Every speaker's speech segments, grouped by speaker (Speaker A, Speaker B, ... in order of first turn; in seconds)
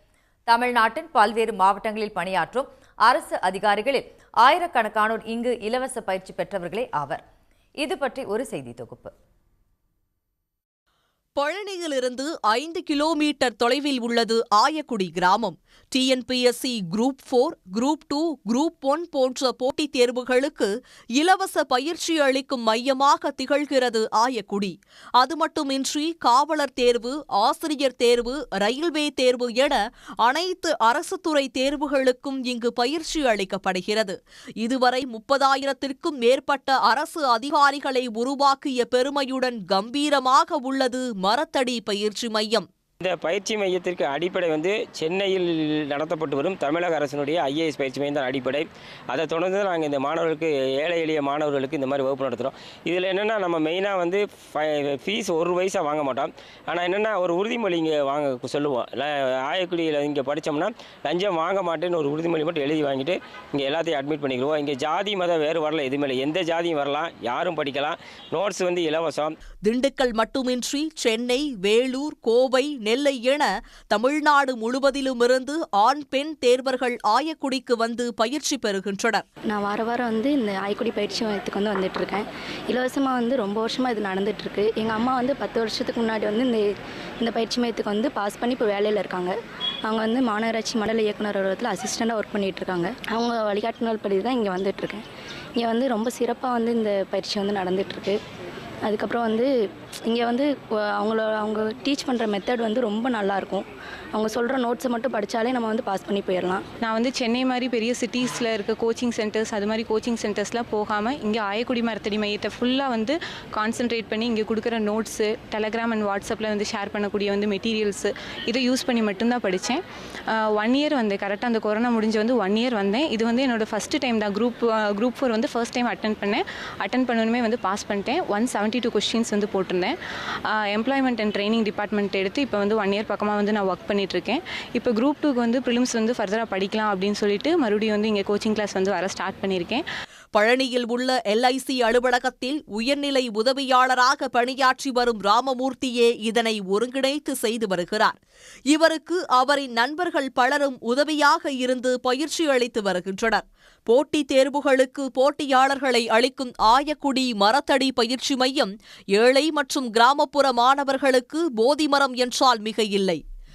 Speaker A: 0.5-7.2, 7.8-9.1
Speaker B: 11.4-42.6, 69.7-79.2, 140.3-148.2, 148.7-163.2
Speaker C: 43.0-69.3
Speaker D: 79.5-89.3, 89.8-95.0, 95.6-98.2, 98.9-99.5, 100.1-106.6
Speaker E: 106.8-129.9, 130.5-139.8